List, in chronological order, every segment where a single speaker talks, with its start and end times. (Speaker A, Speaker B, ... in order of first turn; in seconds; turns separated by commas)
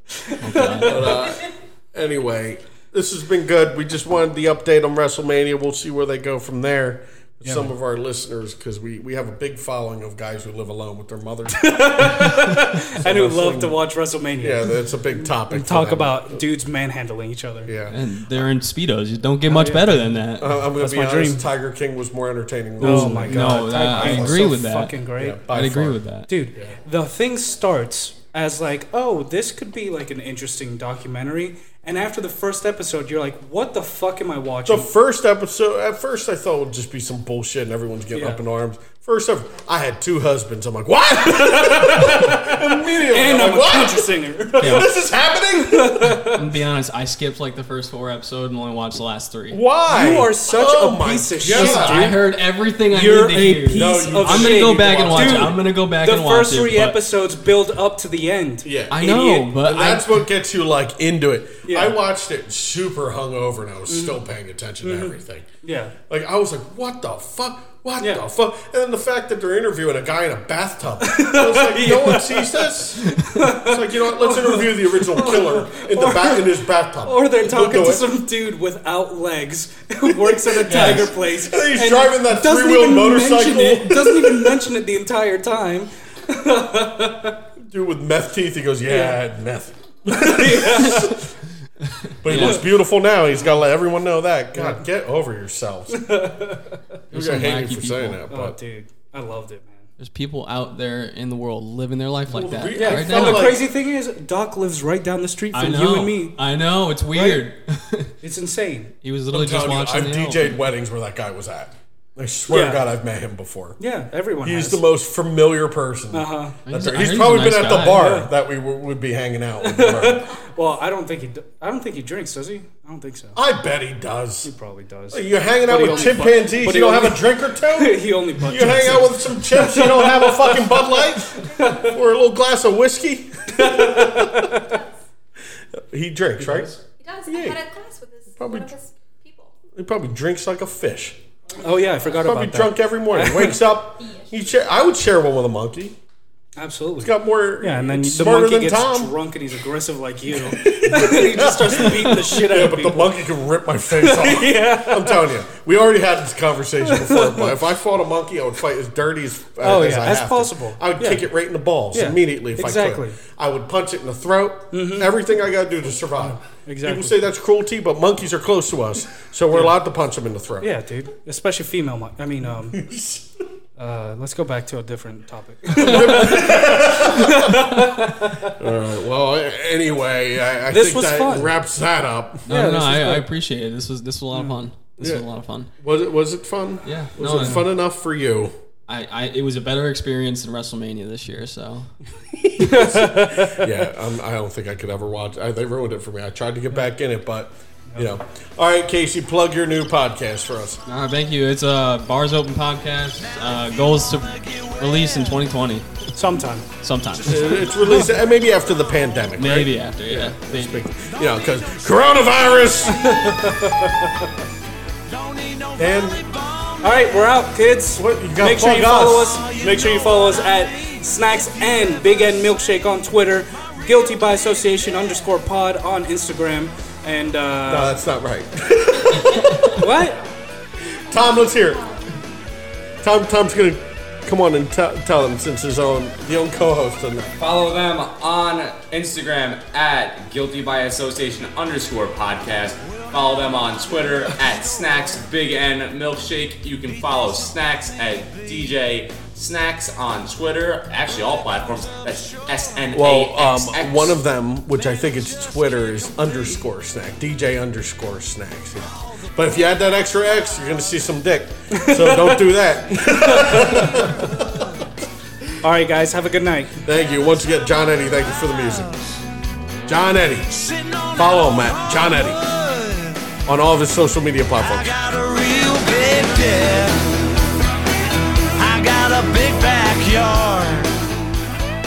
Speaker A: 0.2-1.1, Speaker B: 0.4-1.2, Speaker C: 0.8-13.8, Speaker A: 7.4-7.7, Speaker A: 11.6-14.7, Speaker C: 14.4-16.4, Speaker A: 15.2-17.7, Speaker C: 17.6-18.5, Speaker B: 17.9-20.6, Speaker A: 19.4-20.2, Speaker C: 20.4-24.6, Speaker A: 20.8-21.4, Speaker A: 22.8-25.4, Speaker B: 22.8-26.3, Speaker C: 25.2-26.0, Speaker A: 26.3-34.9, Speaker C: 34.6-46.2, Speaker A: 38.1-38.4, Speaker A: 41.1-44.9, Speaker B: 44.6-44.9, Speaker A: 45.6-46.4, Speaker B: 46.2-49.6, Speaker C: 49.5-52.1, Speaker A: 49.9-52.4, Speaker B: 51.5-57.0, Speaker A: 52.9-58.7, Speaker C: 53.7-55.6, Speaker C: 58.6-65.5, Speaker B: 58.9-60.2, Speaker A: 61.6-62.0, Speaker A: 63.9-64.2, Speaker A: 64.8-65.9, Speaker C: 66.1-78.1, Speaker A: 71.0-87.4, Speaker C: 80.2-84.7, Speaker C: 87.6-91.3, Speaker A: 88.9-89.2, Speaker A: 90.1-91.3, Speaker C: 92.2-96.0, Speaker B: 92.2-92.7, Speaker A: 92.3-92.6, Speaker A: 94.5-94.8, Speaker A: 95.9-96.8, Speaker B: 97.1-98.2, Speaker C: 97.1-98.6, Speaker A: 98.3-99.8, Speaker B: 100.0-103.5, Speaker C: 102.3-103.7, Speaker A: 102.7-106.4, Speaker B: 105.5-108.1, Speaker A: 107.1-107.5, Speaker A: 108.2-108.9, Speaker B: 109.0-110.6, Speaker C: 109.3-113.8, Speaker A: 112.5-112.8, Speaker A: 113.8-114.8, Speaker C: 114.4-120.2, Speaker A: 116.1-116.6, Speaker B: 116.7-118.2, Speaker A: 119.6-123.4, Speaker C: 123.3-124.5, Speaker A: 124.4-131.9, Speaker C: 125.1-134.6, Speaker A: 133.5-134.8, Speaker D: 134.6-134.8, Speaker C: 135.7-136.7, Speaker A: 136.4-136.8, Speaker D: 136.8-139.5, Speaker C: 137.2-137.6, Speaker C: 138.4-138.7, Speaker C: 139.7-141.2, Speaker A: 141.5-143.6, Speaker C: 142.1-146.0, Speaker D: 144.0-144.3, Speaker A: 146.6-153.2, Speaker C: 147.0-149.1, Speaker C: 150.4-170.7, Speaker A: 153.9-155.3, Speaker A: 156.8-157.6, Speaker A: 159.6-161.2, Speaker A: 161.9-163.2, Speaker A: 164.7-165.1, Speaker A: 166.4-167.2, Speaker A: 170.6-172.8, Speaker C: 172.7-173.3, Speaker A: 173.8-178.6, Speaker C: 175.7-182.5, Speaker A: 180.7-181.5, Speaker A: 182.5-183.3, Speaker B: 182.5-185.7, Speaker C: 185.8-188.5, Speaker B: 186.8-187.7, Speaker B: 188.9-191.9, Speaker C: 192.3-200.8, Speaker A: 192.6-193.7, Speaker A: 197.9-198.1, Speaker B: 200.8-205.9, Speaker E: 203.2-205.4, Speaker A: 206.1-206.7, Speaker B: 206.8-207.7, Speaker C: 207.2-213.6, Speaker A: 207.4-208.1, Speaker B: 209.4-210.8, Speaker E: 211.1-213.3, Speaker A: 212.8-214.3, Speaker E: 215.1-217.2, Speaker C: 215.8-216.2, Speaker A: 216.8-228.0, Speaker C: 217.9-219.4, Speaker E: 219.1-222.7, Speaker E: 223.6-224.4, Speaker C: 227.7-230.0, Speaker A: 229.7-230.2, Speaker C: 231.0-231.8, Speaker D: 231.1-231.9, Speaker C: 233.0-237.3, Speaker F: 237.4-254.2, Speaker E: 242.8-245.5, Speaker E: 246.8-247.6, Speaker E: 248.2-248.7, Speaker E: 251.9-252.7, Speaker C: 252.9-264.6, Speaker E: 255.6-256.4, Speaker A: 261.7-264.1, Speaker A: 265.6-266.8, Speaker C: 266.8-268.9, Speaker C: 269.9-270.5, Speaker E: 270.4-273.4, Speaker C: 271.2-272.4, Speaker C: 273.4-274.9, Speaker E: 274.6-277.4, Speaker E: 278.6-281.0